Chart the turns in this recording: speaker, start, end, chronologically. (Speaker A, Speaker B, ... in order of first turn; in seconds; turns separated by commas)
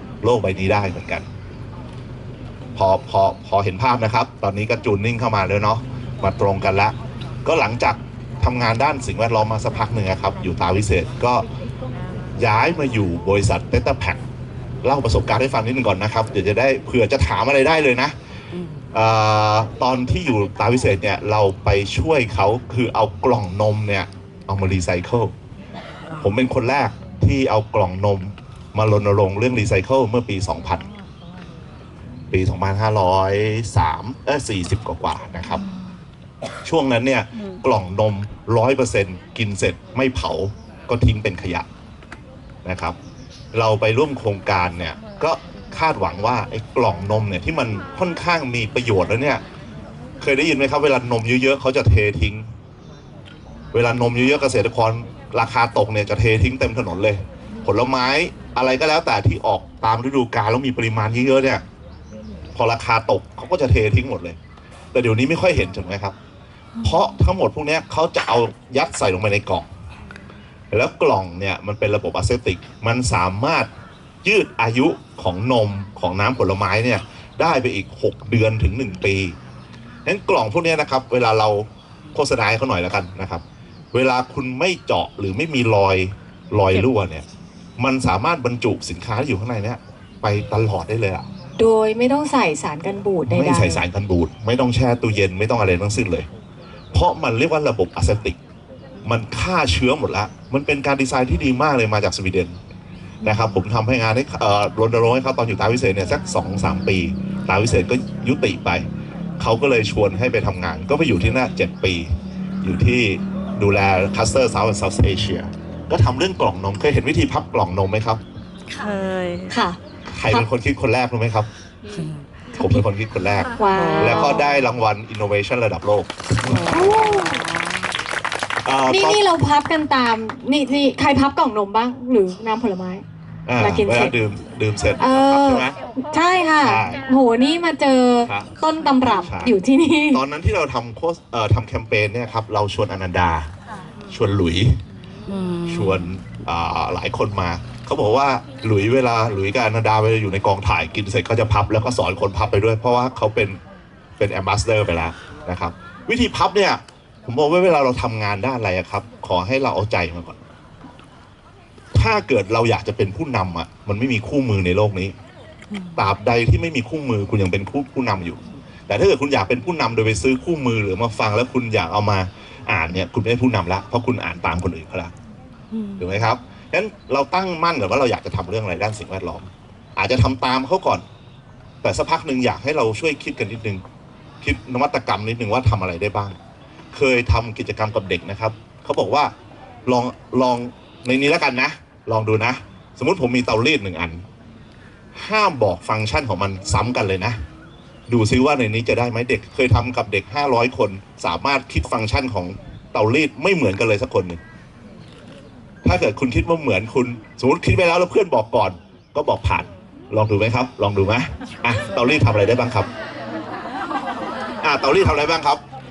Speaker A: 0.2-1.3, Speaker A: 2.7-11.4, Speaker A: 12.3-14.2, Speaker A: 14.8-18.1, Speaker B: 18.5-18.8, Speaker A: 18.9-25.3, Speaker A: 26.2-30.9, Speaker A: 32.3-35.6, Speaker A: 36.6-41.7, Speaker A: 42.6-43.0, Speaker A: 43.5-49.4, Speaker A: 50.2-52.5, Speaker A: 53.7-61.6, Speaker A: 62.5-64.4, Speaker A: 64.9-66.2, Speaker A: 66.8-69.7, Speaker A: 70.7-73.7, Speaker A: 74.2-79.3, Speaker A: 80.0-87.2, Speaker A: 87.8-91.2, Speaker C: 91.6-93.8, Speaker A: 93.3-96.3, Speaker A: 96.9-98.4, Speaker A: 99.0-102.5, Speaker B: 103.2-103.5, Speaker A: 103.2-108.8, Speaker A: 109.4-118.2, Speaker B: 118.7-119.5, Speaker C: 119.5-120.5, Speaker A: 120.1-121.5, Speaker B: 121.9-122.8, Speaker A: 122.6-126.6, Speaker C: 123.6-124.4, Speaker B: 123.7-124.5, Speaker B: 126.4-127.6, Speaker C: 126.7-127.4, Speaker A: 128.6-129.2, Speaker C: 128.9-133.0, Speaker A: 133.5-135.8, Speaker C: 133.6-134.2, Speaker C: 135.0-140.2, Speaker A: 136.6-137.0, Speaker A: 139.1-139.6, Speaker A: 140.1-143.5, Speaker A: 144.1-144.8, Speaker B: 145.2-146.1, Speaker A: 145.7-153.6, Speaker A: 154.2-160.4, Speaker A: 161.9-165.2, Speaker B: 165.7-166.1, Speaker A: 165.9-175.1, Speaker B: 175.7-176.1, Speaker A: 176.0-181.0, Speaker A: 181.8-183.8, Speaker A: 184.4-186.4, Speaker A: 186.9-189.3, Speaker A: 189.8-194.2, Speaker A: 195.1-197.4, Speaker A: 198.1-204.4, Speaker A: 205.8-212.9, Speaker A: 214.6-215.6